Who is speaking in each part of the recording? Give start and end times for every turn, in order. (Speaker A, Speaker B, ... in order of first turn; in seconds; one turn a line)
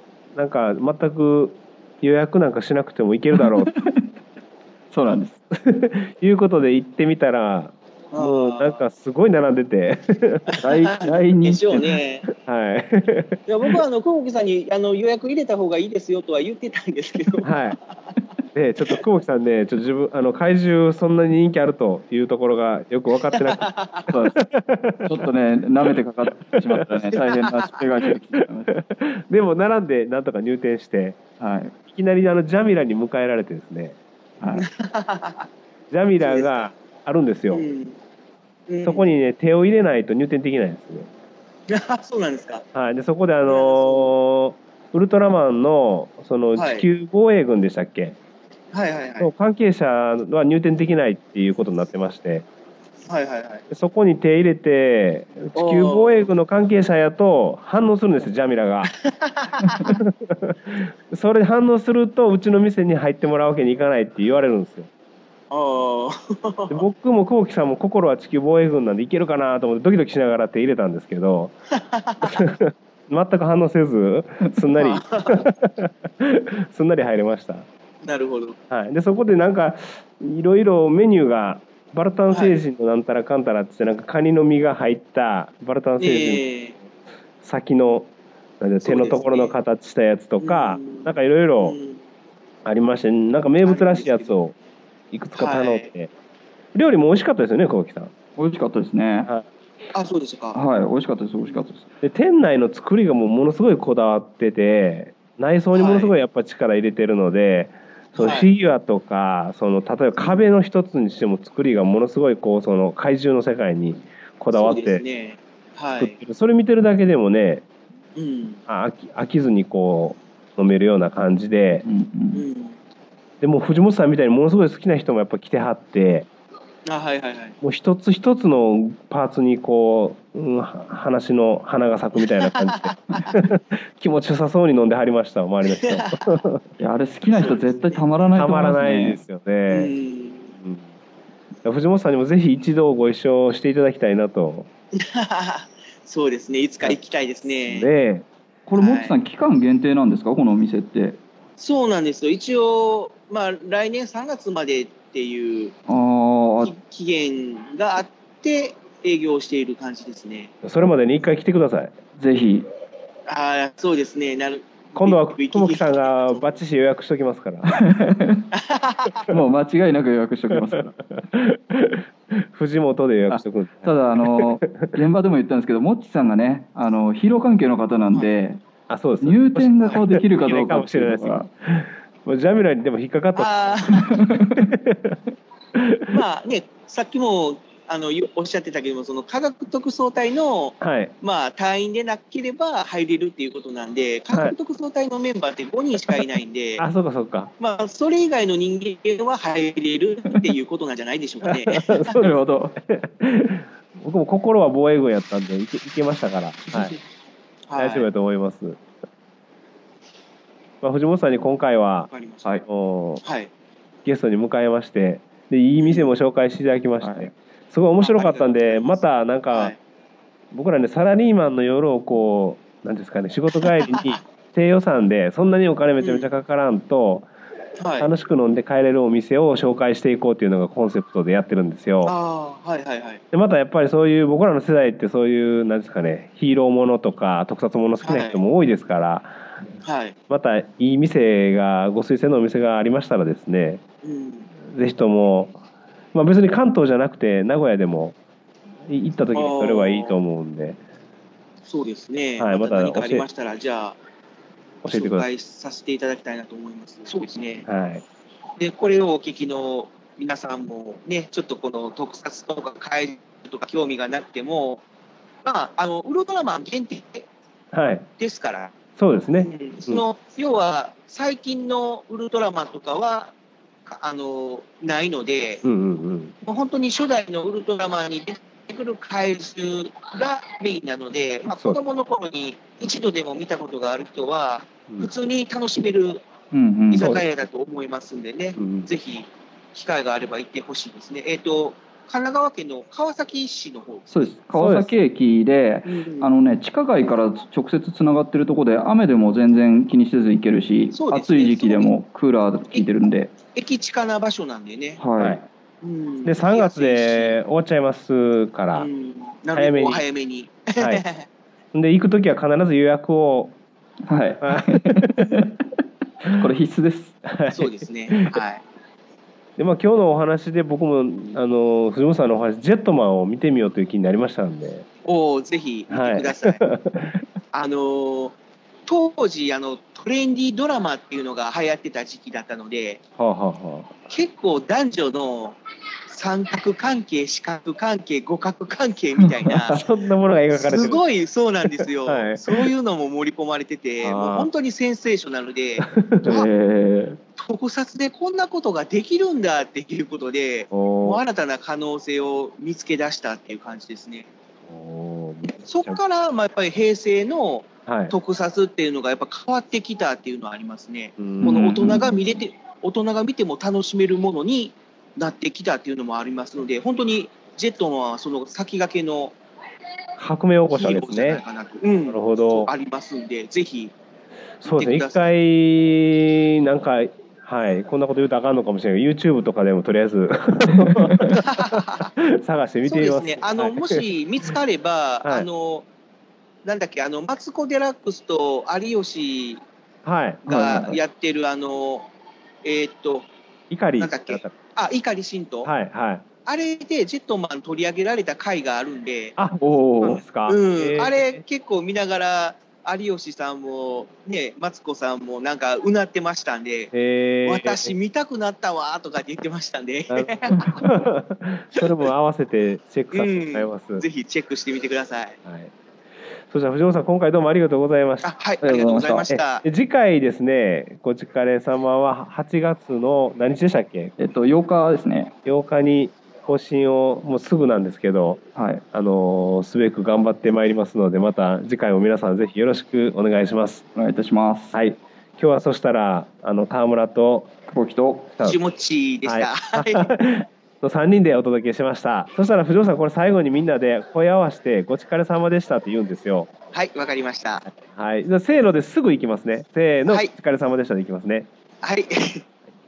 Speaker A: 0.3-3.7
Speaker B: 3.4-4.1
Speaker B: 4.9-5.4
Speaker A: 5.6-10.6
Speaker C: 8.1-8.8
Speaker C: 10.5-12.3
Speaker B: 10.6-12.0
Speaker A: 12.3-13.4
Speaker C: 13.5-17.6
Speaker A: 17.4-17.8
Speaker A: 18.5-23.7
Speaker C: 23.4-24.1
Speaker B: 24.1-24.4
Speaker A: 24.3-25.2
Speaker B: 25.1-28.7
Speaker A: 26.6-27.0
Speaker C: 27.1-27.8
Speaker A: 28.4-31.2
Speaker B: 31.4-31.7
Speaker A: 31.9-34.0
Speaker B: 34.4-34.7
Speaker C: 34.6-35.5
Speaker A: 35.9-37.6
Speaker C: 36.2-36.7
Speaker C: 37.5-38.0
Speaker C: 38.7-39.1
Speaker A: 38.8-41.1
Speaker C: 41.7-42.6
Speaker A: 42.7-48.2
Speaker C: 43.5-44.1
Speaker C: 46.6-46.9
Speaker C: 48.7-49.3
Speaker A: 49.2-52.5
Speaker C: 53.1-53.7
Speaker A: 53.7-58.9
Speaker C: 55.6-56.3
Speaker C: 58.9-60.0
Speaker A: 59.6-64.9
Speaker C: 65.5-66.8
Speaker A: 66.7-71.5
Speaker C: 71.8-72.4
Speaker A: 72.2-77.7
Speaker C: 74.8-75.5
Speaker C: 78.0-78.6
Speaker A: 78.7-86.4
Speaker C: 86.0-86.8
Speaker A: 87.4-91.8
Speaker C: 88.8-89.5
Speaker C: 90.4-92.0
Speaker A: 92.6-94.5
Speaker C: 93.6-94.4
Speaker A: 95.1-96.1
Speaker C: 95.4-95.9
Speaker A: 96.7-98.1
Speaker B: 98.4-99.3
Speaker C: 99.9-100.6
Speaker B: 100.5-101.9
Speaker C: 101.4-101.7
Speaker A: 102.0-115.0
Speaker C: 105.7-106.1
Speaker C: 108.2-108.5
Speaker C: 114.5-116.1
Speaker A: 116.0-117.6
Speaker C: 118.2-118.6
Speaker A: 118.7-121.8
Speaker B: 121.8-122.4
Speaker C: 122.3-122.8
Speaker A: 123.4-126.3
Speaker C: 126.9-127.6
Speaker A: 127.6-136.6
Speaker C: 132.3-133.3
Speaker C: 135.8-136.3
Speaker B: 136.8-139.2
Speaker C: 137.4-138.1
Speaker A: 138.3-139.9
Speaker C: 139.7-140.5
Speaker A: 140.6-140.9
Speaker A: 141.6-144.7
Speaker C: 145.0-147.9
Speaker A: 147.7-148.2
Speaker B: 148.7-151.2
Speaker C: 148.7-149.2
Speaker C: 151.6-155.8
Speaker B: 155.9-156.7
Speaker C: 156.6-160.5
Speaker A: 160.6-161.9
Speaker B: 162.2-162.7
Speaker C: 163.3-166.5
Speaker A: 164.9-168.1
Speaker B: 167.7-168.4
Speaker C: 168.5-169.2
Speaker B: 169.3-170.9
Speaker A: 170.6-174.9
Speaker B: 173.3-178.6
Speaker A: 178.9-185.2
Speaker B: 179.2-181.5
Speaker C: 183.4-184.2
Speaker B: 184.2-184.6
Speaker A: 185.8-186.1
Speaker C: 186.1-196.8
Speaker A: 190.8-191.1
Speaker A: 196.8-197.5
Speaker C: 197.6-202.1
Speaker A: 201.5-206.9
Speaker B: 202.2-202.8
Speaker C: 207.7-208.1
Speaker A: 207.8-208.8
Speaker A: 210.8-212.1
Speaker C: 212.1-212.5
Speaker A: 212.7-213.2
Speaker C: 213.2-213.5
Speaker A: 214.1-219.7
Speaker C: 215.8-216.1
Speaker B: 217.0-217.3
Speaker C: 218.0-219.0
Speaker C: 219.5-219.8
Speaker A: 220.5-227.3
Speaker C: 223.6-224.2
Speaker C: 226.0-226.3
Speaker C: 227.8-228.1
Speaker A: 228.0-232.1
Speaker C: 232.1-233.2
Speaker A: 233.3-239.4
Speaker C: 238.0-238.4
Speaker C: 239.8-240.2
Speaker A: 240.3-243.8
Speaker C: 244.0-244.5
Speaker A: 244.7-245.6
Speaker A: 246.1-248.2
Speaker A: 248.9-250.8
Speaker C: 249.3-250.2
Speaker C: 251.7-254.0
Speaker A: 252.4-253.2
Speaker A: 254.8-255.3
Speaker C: 254.9-257.7
Speaker A: 257.6-258.0
Speaker C: 258.6-264.8
Speaker C: 265.4-267.3
Speaker A: 267.7-268.1
Speaker C: 268.2-268.7
Speaker A: 269.0-270.0
Speaker C: 269.4-273.3
Speaker C: 273.9-275.6
Speaker A: 275.6-276.4
Speaker C: 276.4-286.2
Speaker B: 286.5-287.1
Speaker C: 286.9-294.3
Speaker A: 287.0-287.2
Speaker A: 288.6-288.9
Speaker B: 294.1-303.4
Speaker A: 294.5-294.9
Speaker C: 295.9-296.3
Speaker C: 300.9-301.9
Speaker C: 303.5-305.0
Speaker B: 305.0-305.4
Speaker A: 305.2-305.4
Speaker C: 305.8-307.4
Speaker A: 306.2-308.9
Speaker C: 308.7-311.2
Speaker A: 309.5-310.0
Speaker A: 310.8-311.0
Speaker A: 311.7-313.6
Speaker B: 314.1-315.6
Speaker A: 314.4-315.3
Speaker B: 316.3-317.1
Speaker A: 317.2-318.4
Speaker C: 317.5-318.6
Speaker A: 319.6-324.9
Speaker C: 325.1-326.6
Speaker A: 325.9-327.2
Speaker C: 327.5-333.0
Speaker A: 333.2-334.0
Speaker C: 334.1-339.8
Speaker B: 339.4-339.8
Speaker A: 339.6-341.0
Speaker C: 340.5-345.9
Speaker A: 342.1-342.7
Speaker A: 344.0-344.5
Speaker A: 345.8-346.4
Speaker B: 346.2-347.2
Speaker C: 347.4-354.3
Speaker A: 350.7-351.2
Speaker A: 354.7-356.0
Speaker C: 355.6-369.4
Speaker A: 357.9-358.1
Speaker A: 361.2-362.1
Speaker A: 370.2-371.4
Speaker C: 370.7-373.9
Speaker A: 372.1-372.7
Speaker A: 374.6-384.1
Speaker C: 374.6-375.2
Speaker B: 380.7-381.3
Speaker C: 381.3-382.1
Speaker C: 382.9-385.9
Speaker C: 386.6-389.6
Speaker A: 390.1-390.9
Speaker B: 390.4-390.9
Speaker C: 390.4-392.1
Speaker C: 392.6-393.3
Speaker A: 393.7-394.5
Speaker C: 394.0-395.7
Speaker A: 395.6-396.2
Speaker C: 396.4-399.4
Speaker A: 399.4-401.4
Speaker B: 399.6-400.2
Speaker C: 400.5-406.9
Speaker A: 406.9-407.9
Speaker C: 407.4-410.9
Speaker A: 410.1-414.0
Speaker C: 413.1-415.4
Speaker A: 415.4-415.7
Speaker A: 416.5-424.1
Speaker C: 418.2-419.6
Speaker B: 418.6-419.3
Speaker B: 424.2-425.3
Speaker A: 425.4-428.4
Speaker B: 428.6-428.8
Speaker A: 428.9-433.8
Speaker B: 433.9-434.8
Speaker A: 434.7-437.5
Speaker B: 437.7-438.3
Speaker C: 438.4-440.1
Speaker A: 439.2-446.5
Speaker C: 446.7-447.7
Speaker A: 447.7-451.5
Speaker C: 451.8-452.4